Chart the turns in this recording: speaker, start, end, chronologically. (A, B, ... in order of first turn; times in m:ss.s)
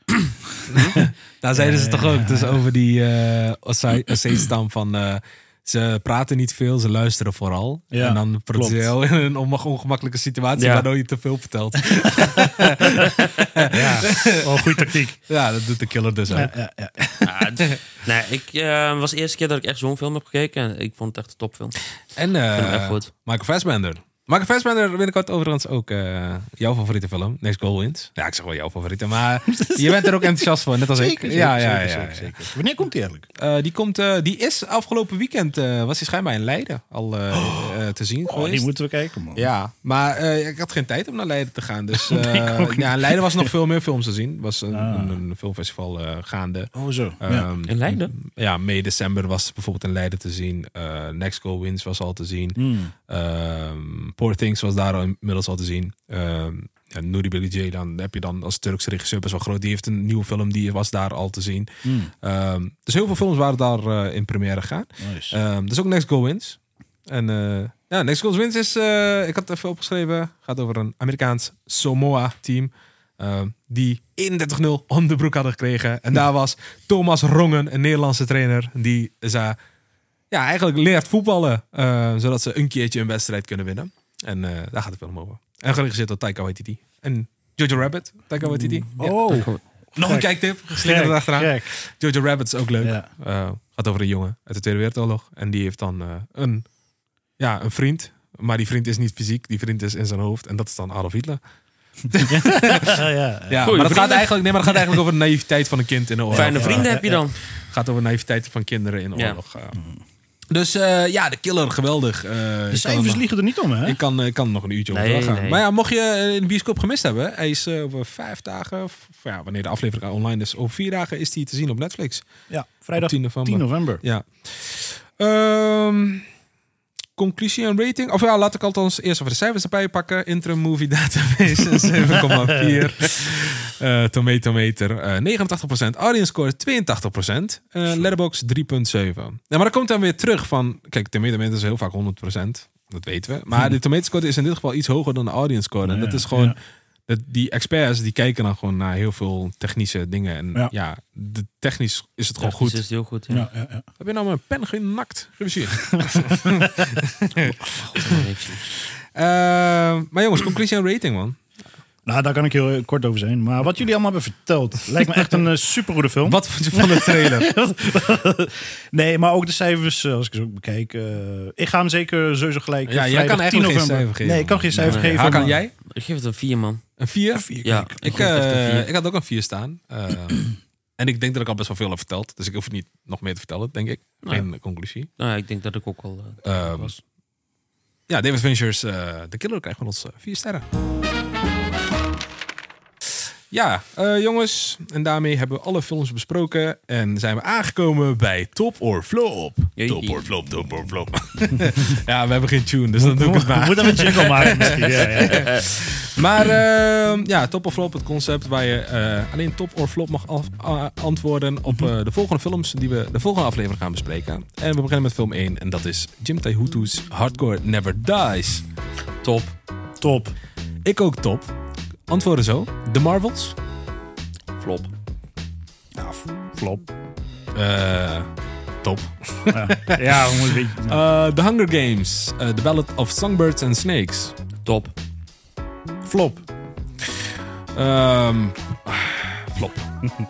0:00.7-0:16.5 A
0:01.6-0:02.6 B
0:07.9-0:08.9 B
0:10.6-0:10.9 C
0:12.0-0:15.2 B
0:16.3-0:17.4 B
0:17.2-0:21.8 C
0:22.2-0:32.4 A
0:22.6-0:23.1 C
0:29.5-0:33.3 B
0:33.4-0:38.7 A
0:37.3-0:37.8 B
0:38.3-0:39.5 B
0:39.4-1:01.7 A
0:42.0-0:43.5 B
0:44.7-0:45.2 B
0:46.7-0:47.5 B
0:47.7-0:48.1 C
0:52.6-0:52.9 B
1:01.8-1:02.1 B
1:02.2-1:19.6 A
1:05.0-1:05.4 B
1:20.3-1:28.9 A
1:28.7-1:31.7 B
1:28.9-1:29.6 C
1:30.0-1:36.6 A
1:32.8-1:33.1 B
1:37.4-1:41.4 A
1:42.1-1:47.0 A
1:42.2-1:43.8 B
1:43.6-1:44.3 C
1:46.3-1:47.2 B
1:46.3-1:47.4 C
1:47.7-1:49.8 A
1:49.2-1:49.4 C
1:50.5-1:53.2 A
1:52.7-1:54.0 B
1:53.8-2:02.3 A
1:54.9-1:55.6 C
2:02.5-2:04.0 B
2:03.0-2:06.3 A
2:07.2-2:32.8 A
2:25.8-2:26.6 B
2:32.4-2:33.5 C
2:33.3-2:33.9 B
2:34.0-2:38.2 A
2:35.9-2:36.5 B
2:37.7-2:38.7 C
2:39.2-2:41.4 A
2:42.1-2:55.6 B
2:46.2-2:47.6 A
2:52.9-2:55.7 A
2:54.8-2:56.8 C
2:57.0-3:05.1 A
2:57.3-2:58.2 B
2:57.6-2:58.9 C
3:05.2-3:07.0 C
3:06.4-3:06.9 A
3:08.1-3:10.6 A
3:13.5-3:38.6 A
3:19.8-3:20.3 C
3:23.0-3:25.5 B
3:25.1-3:25.7 C
3:39.2-3:39.5 C
3:40.0-3:40.3 B
3:40.8-3:41.5 A
3:42.1-3:43.6 A
3:44.6-3:44.9 C
3:46.0-3:46.8 B
3:47.5-3:48.3 A
3:48.8-3:54.4 A
3:49.5-3:51.0 B
3:54.6-3:54.9 C
3:56.0-3:56.4 B
3:57.8-3:59.9 A